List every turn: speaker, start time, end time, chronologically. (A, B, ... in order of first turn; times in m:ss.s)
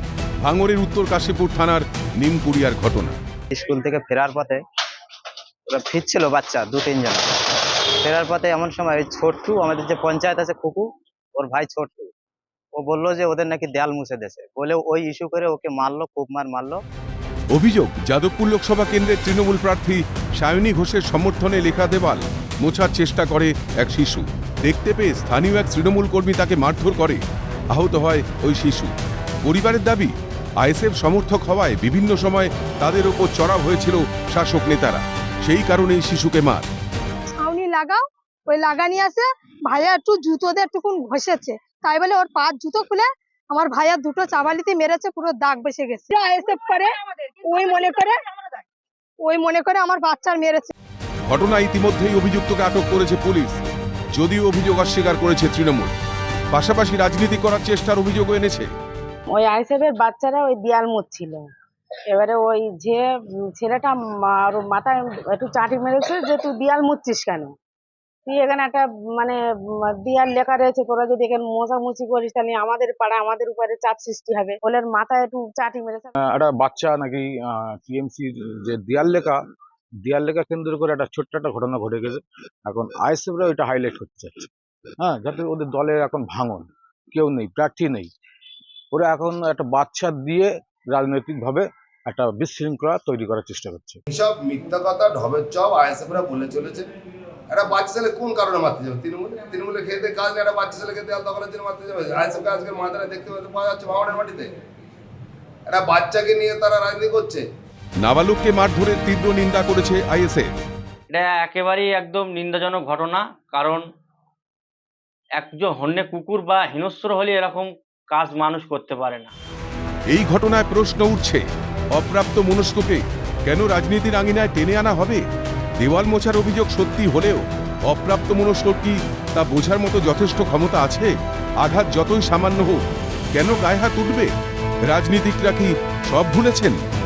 0:00.4-0:03.2 A
0:03.5-0:04.6 B
0:05.7-0:12.1 B
0:12.8-0:16.8 B
0:17.5-0:36.7 A
0:37.3-0:48.2 C
0:49.2-0:50.7 C
0:51.3-0:53.6 A
0:54.1-0:55.9 A
0:56.5-0:58.7 A
0:59.3-1:01.4 D
1:02.1-1:07.5 D
1:08.3-1:16.1 D
1:16.2-1:19.4 E
1:20.0-1:24.5 E
1:25.0-1:28.1 E
1:28.9-1:34.0 E
1:34.1-1:36.9 F
1:37.5-1:44.5 F
1:45.7-1:47.5 F
1:48.0-1:50.5 A
1:51.1-1:53.8 G
1:55.4-1:59.3 G
2:00.1-2:05.2 A
2:05.8-2:12.8 A
2:13.3-2:14.3 A
2:14.9-2:16.8 A